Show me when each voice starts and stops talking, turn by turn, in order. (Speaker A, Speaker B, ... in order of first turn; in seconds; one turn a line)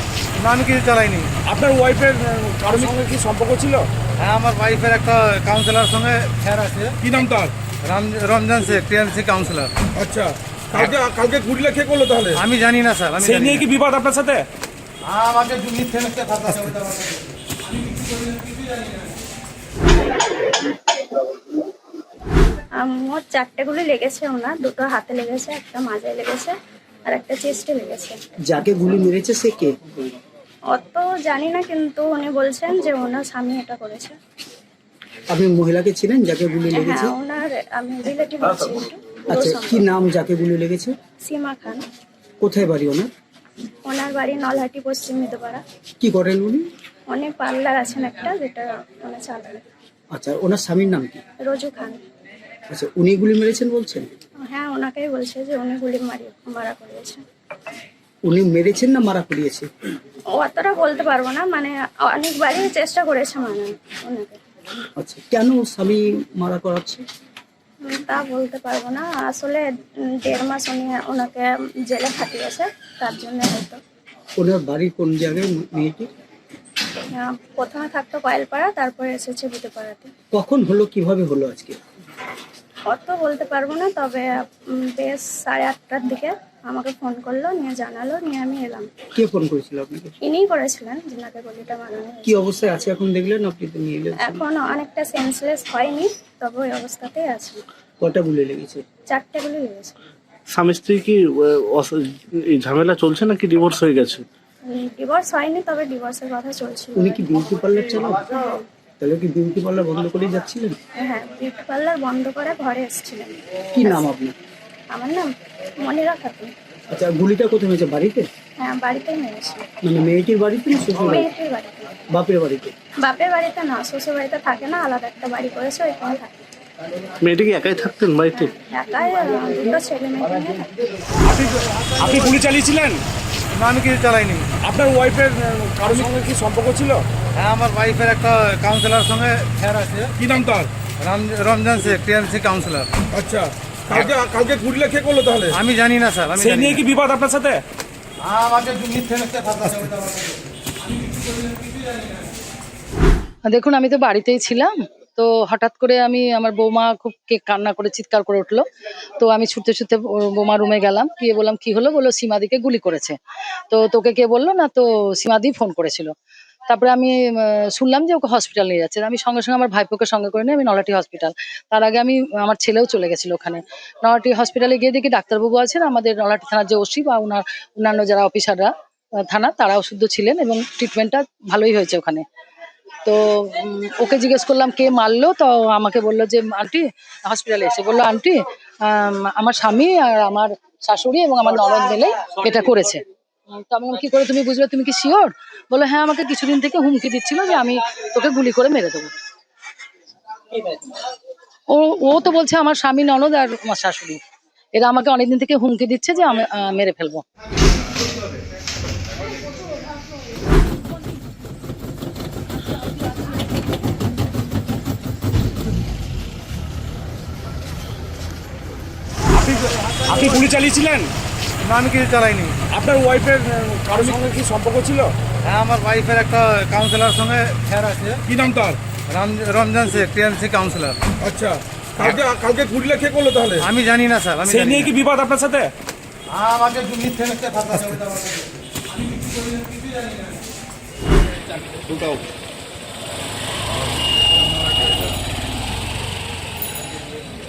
Speaker A: 0.4-1.3
Speaker B: 1.4-3.9
Speaker A: 4.2-7.0
Speaker B: 7.0-7.5
Speaker A: 7.8-9.7
Speaker B: 10.0-12.4
Speaker A: 12.4-13.7
Speaker B: 13.2-14.5
Speaker A: 15.1-17.5
Speaker B: 17.9-18.4
Speaker C: 22.8-26.5
Speaker C: 27.1-28.2
Speaker D: 28.4-29.8
Speaker C: 30.7-34.2
Speaker D: 35.3-37.2
Speaker C: 36.7-39.9
Speaker D: 39.3-40.9
Speaker C: 41.2-41.8
Speaker D: 42.4-43.1
Speaker C: 43.9-45.6
Speaker D: 46.0-46.7
Speaker C: 47.1-49.6
Speaker D: 50.1-51.2
Speaker C: 51.5-52.0
Speaker D: 52.7-54.1
Speaker C: 54.5-57.2
Speaker D: 58.2-59.7
Speaker C: 60.4-64.4
Speaker D: 65.0-67.0
Speaker C: 67.8-73.8
Speaker D: 74.4-76.1
Speaker C: 77.1-80.1
Speaker D: 80.3-81.8
Speaker C: 82.9-88.9
Speaker D: 89.2-90.1
Speaker C: 90.2-92.4
Speaker D: 92.2-94.5
Speaker C: 94.2-97.6
Speaker D: 98.0-98.8
Speaker C: 99.1-99.9
Speaker E: 100.5-104.3
Speaker C: 104.7-107.2
Speaker D: 107.0-108.3
Speaker D: 109.0-110.8
Speaker C: 111.0-114.0
Speaker D: 113.7-114.3
Speaker C: 114.9-115.3
Speaker C: 115.8-116.5
Speaker D: 116.9-118.3
Speaker C: 118.6-119.7
Speaker D: 119.8-121.3
Speaker C: 121.1-121.9
Speaker D: 122.1-122.7
Speaker C: 123.0-126.3
Speaker E: 127.2-128.4
Speaker C: 128.3-130.7
Speaker B: 132.0-133.0
Speaker A: 133.6-134.4
Speaker B: 134.6-137.1
Speaker A: 137.4-140.1
Speaker B: 140.2-140.7
Speaker A: 141.0-142.9
Speaker B: 143.1-145.6
Speaker A: 145.5-146.8
Speaker B: 146.4-147.6
Speaker A: 148.2-150.5
Speaker F: 153.4-166.2
Speaker F: 166.7-182.3
Speaker F: 183.0-199.1
Speaker F: 200.5-201.0
Speaker F: 201.7-204.2
Speaker F: 204.7-207.2
Speaker B: 220.1-221.1
Speaker A: 221.6-222.6
Speaker B: 222.7-225.1
Speaker A: 225.4-228.2
Speaker B: 228.3-228.8
Speaker A: 229.1-231.0
Speaker B: 231.2-233.7
Speaker A: 233.6-234.9
Speaker B: 234.4-235.7
Speaker A: 236.3-238.5